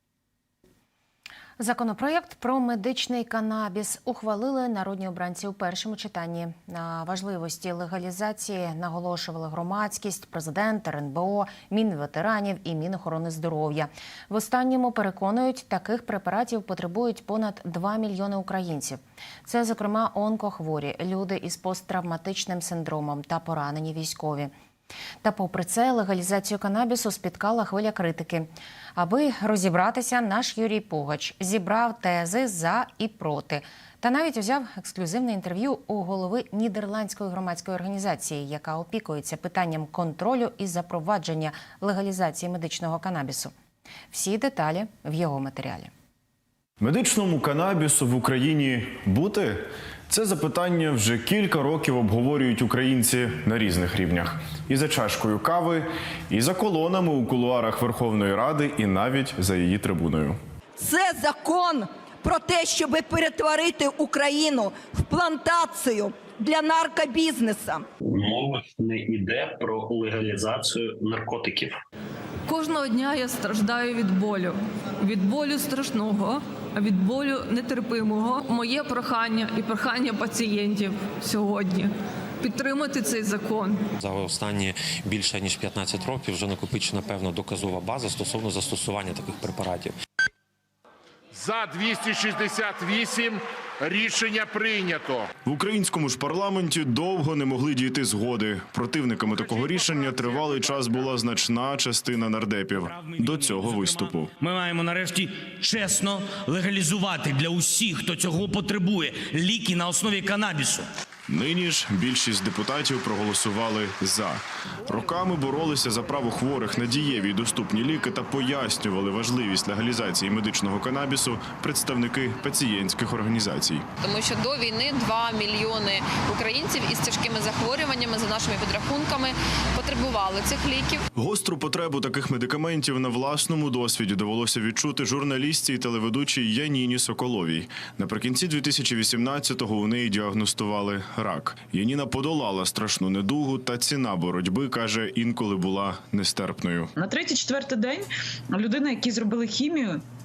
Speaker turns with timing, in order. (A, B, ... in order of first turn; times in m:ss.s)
0:01.6-0:24.5 A
0:25.2-0:43.5 A
0:44.1-0:45.9 A
0:46.8-0:49.6 B
0:50.1-1:00.4 B
1:00.8-1:07.9 C
1:08.1-1:11.8 D
1:12.5-1:23.8 E
1:24.0-1:30.0 F
1:31.3-1:35.3 G
1:35.4-1:44.3 B
1:42.8-1:50.9 H
1:51.3-2:03.8 B
2:04.0-2:11.0 I
2:11.2-2:26.9 B
2:27.0-2:30.0 J